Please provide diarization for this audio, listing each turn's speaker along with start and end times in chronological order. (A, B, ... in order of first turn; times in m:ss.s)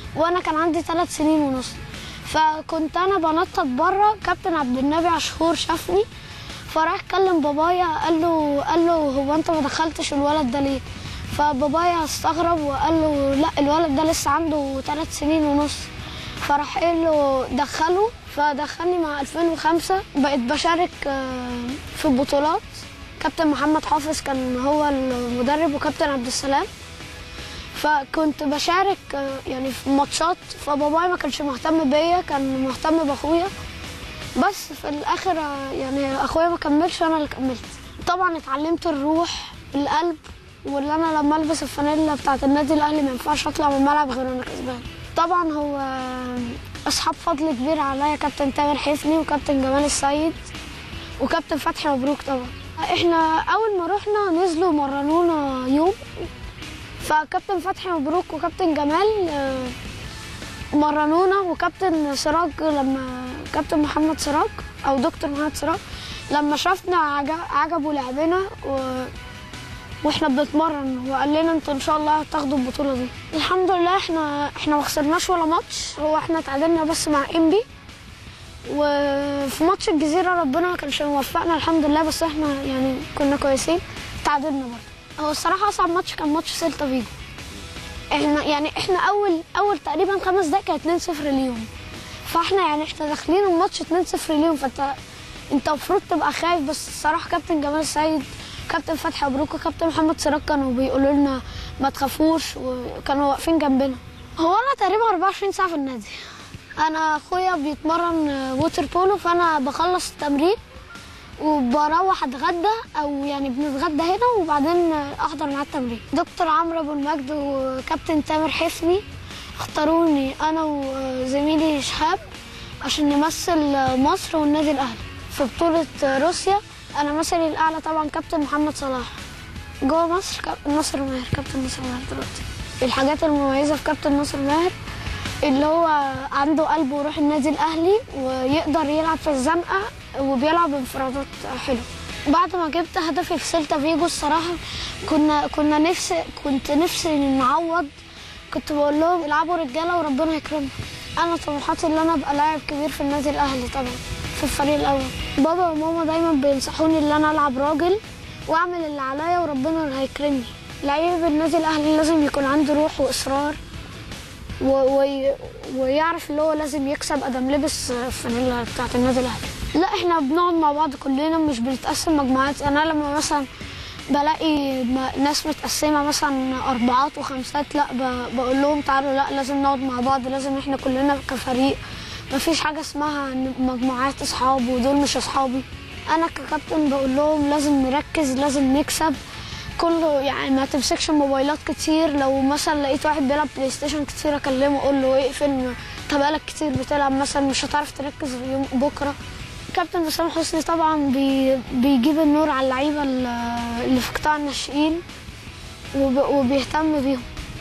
0:00.1-0:06.1 A
0:06.7-0:15.9 A
0:16.4-0:26.7 A
0:27.7-0:33.5 A
0:34.4-0:50.5 A
0:51.2-0:56.3 A
0:57.0-0:59.8 A
1:00.7-1:09.1 A
1:10.0-1:17.6 A
1:18.6-1:27.1 A
1:28.1-1:31.7 A
1:32.2-1:35.0 A
1:35.5-1:50.6 A
1:51.4-1:59.0 A
1:59.6-2:02.3 A
2:02.8-2:09.2 A
2:09.8-2:14.8 A
2:15.4-2:27.9 A
2:28.5-2:43.6 A
2:44.6-2:53.5 A
2:54.1-3:09.2 A
3:09.8-3:19.2 A
3:19.7-3:25.0 A
3:25.9-3:27.3 A